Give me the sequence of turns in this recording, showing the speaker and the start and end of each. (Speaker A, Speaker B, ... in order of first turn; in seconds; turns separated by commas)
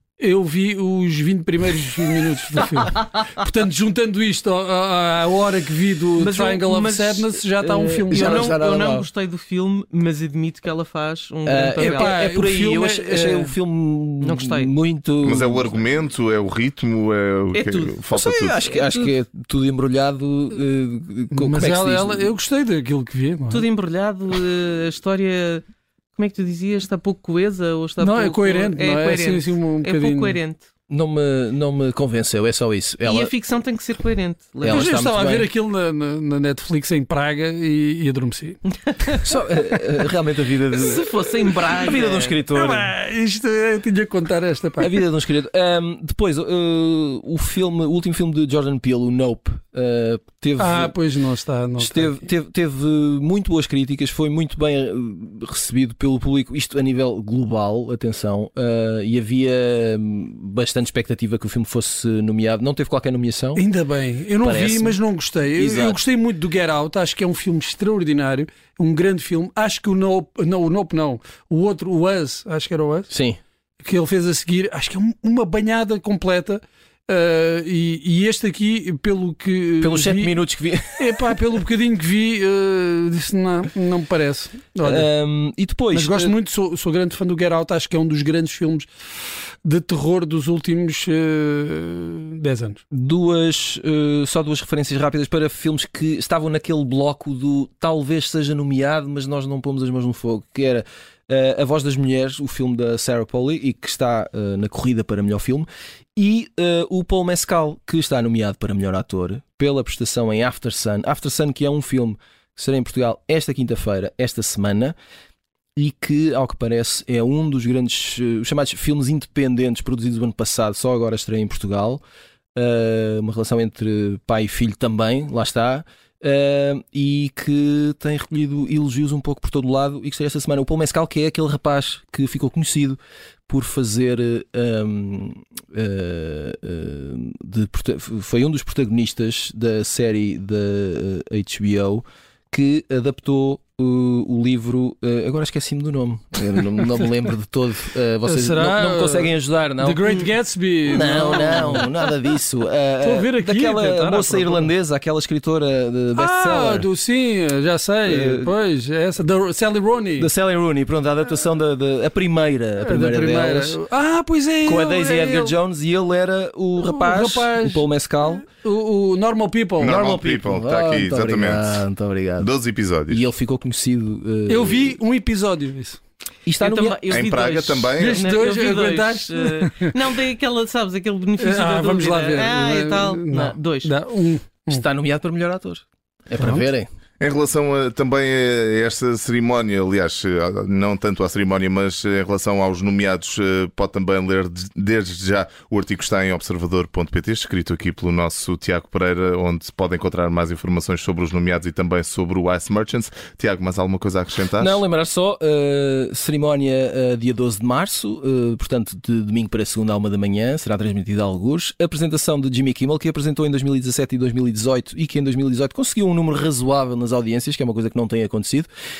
Speaker A: 0.2-8.6, Speaker B: 6.2-12.2, Speaker C: 7.7-9.1, Speaker C: 11.4-15.8, Speaker A: 11.8-13.6, Speaker B: 14.2-14.7, Speaker D: 15.2-18.6, Speaker B: 17.5-18.1, Speaker C: 18.1-22.4, Speaker B: 18.6-19.1, Speaker A: 21.3-23.7, Speaker B: 23.5-25.6, Speaker B: 26.1-30.6, Speaker A: 28.0-30.4, Speaker C: 30.9-33.3, Speaker B: 33.0-35.0, Speaker C: 34.6-35.5, Speaker A: 34.6-38.6, Speaker B: 38.9-39.2, Speaker C: 39.2-42.9, Speaker B: 40.7-42.4, Speaker A: 42.5-45.1, Speaker C: 44.8-51.0, Speaker A: 50.5-52.2, Speaker C: 51.8-63.6, Speaker A: 63.5-73.1, Speaker C: 64.4-65.0, Speaker C: 65.5-66.0, Speaker C: 73.1-73.4, Speaker A: 73.8-85.1, Speaker C: 79.8-81.4, Speaker C: 84.8-86.3, Speaker A: 85.9-88.9, Speaker A: 89.6-92.8, Speaker C: 92.9-115.0, Speaker C: 115.8-122.0, Speaker C: 122.5-150.2, Speaker A: 146.5-147.1, Speaker A: 148.2-151.9, Speaker C: 150.8-156.9, Speaker A: 152.9-154.7, Speaker A: 156.1-160.3, Speaker C: 158.0-158.6, Speaker C: 160.2-163.8, Speaker A: 162.8-165.6, Speaker C: 164.6-168.4, Speaker A: 166.8-170.0, Speaker D: 169.8-171.8, Speaker C: 169.9-172.5, Speaker D: 172.4-173.2, Speaker C: 173.1-175.0, Speaker A: 174.5-176.0, Speaker C: 176.4-177.1, Speaker B: 176.6-183.9, Speaker D: 177.1-178.3, Speaker A: 178.0-180.2, Speaker A: 181.4-184.8, Speaker C: 184.7-186.9, Speaker A: 186.3-186.7, Speaker D: 187.2-204.8, Speaker C: 204.6-218.7